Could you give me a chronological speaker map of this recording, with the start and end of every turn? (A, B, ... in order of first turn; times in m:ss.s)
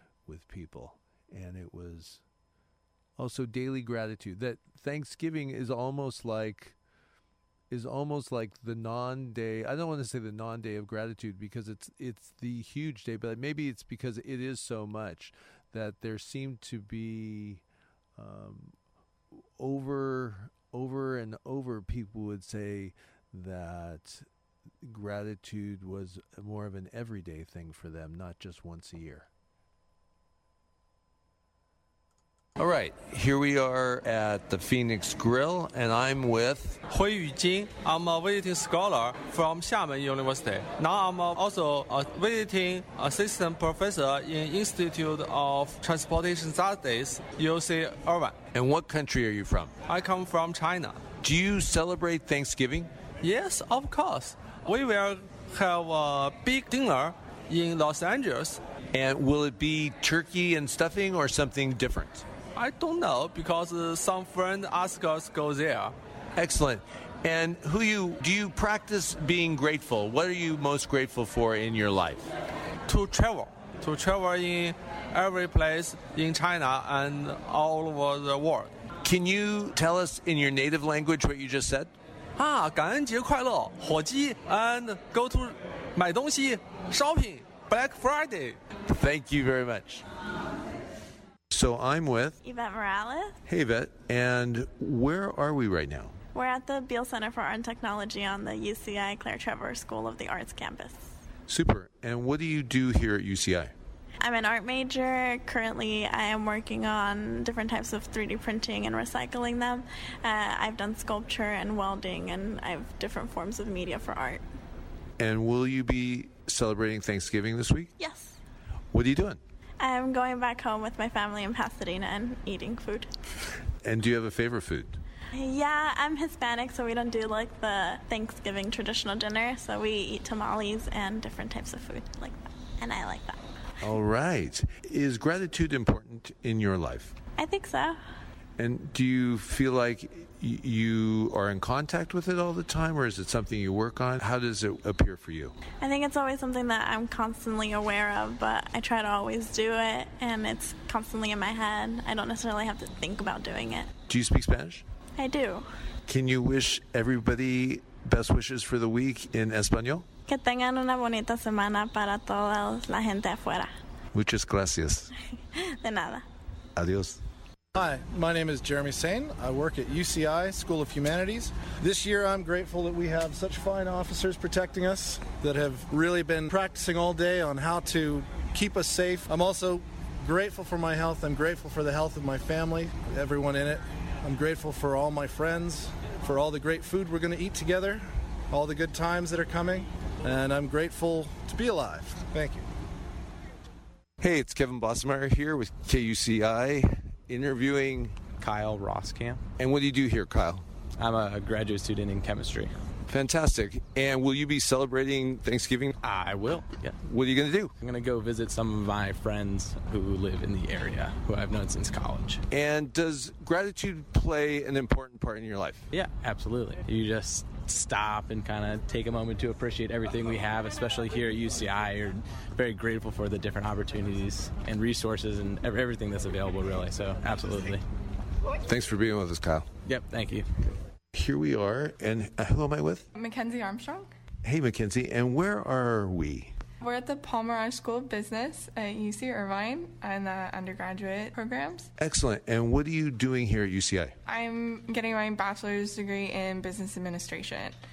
0:00.2-0:02.2 A
0:03.2-0:06.8 A
0:07.7-0:17.6 A
0:18.2-0:18.8 A
0:19.3-0:24.2 A
0:24.8-0:29.3 A
0:32.6-0:36.8 A
0:36.9-0:48.4 B
0:48.5-0:49.8 A
0:49.9-0:51.0 B
0:51.2-0:52.9 A
0:53.2-0:58.6 B
0:58.9-1:02.2 A
1:02.5-1:05.9 B
1:06.4-1:12.3 A
1:12.9-1:18.7 B
1:19.0-1:21.9 A
1:22.4-1:28.6 B
1:28.9-1:30.0 A
1:31.5-1:32.4 A
1:32.4-1:33.4 C
1:33.5-1:36.2 A
1:36.3-1:41.1 C
1:41.5-1:43.7 A
1:44.2-1:54.4 C
1:55.2-1:57.9 A
1:58.0-1:58.4 C
1:58.9-1:59.4 A
1:59.8-2:03.1 C
2:03.8-2:05.0 A
2:05.3-2:13.4 C
2:13.8-2:17.1 A
2:17.4-2:18.0 C
2:18.6-2:25.6 A
2:25.8-2:33.9 C
2:34.1-2:34.8 A
2:35.2-2:35.7 C
2:36.1-2:40.0 A
2:40.3-2:43.7 C
2:44.1-2:45.1 A
2:45.5-2:46.2 C
2:46.8-2:47.2 A
2:47.7-3:12.7 D
3:14.2-3:18.2 A
3:18.3-3:19.4 E
3:19.6-3:20.6 A
3:21.0-3:22.7 E
3:23.1-3:25.9 A
3:26.0-3:27.0 E
3:27.0-3:27.7 A
3:27.8-3:32.4 E
3:32.5-3:35.9 A
3:35.9-3:47.8 E
3:48.6-3:49.7 A
3:49.8-3:50.4 E
3:51.1-3:53.0 A
3:53.1-3:54.1 F
3:54.4-3:56.5 A
3:56.8-4:01.9 F
4:02.0-4:04.1 A
4:04.2-4:07.8 F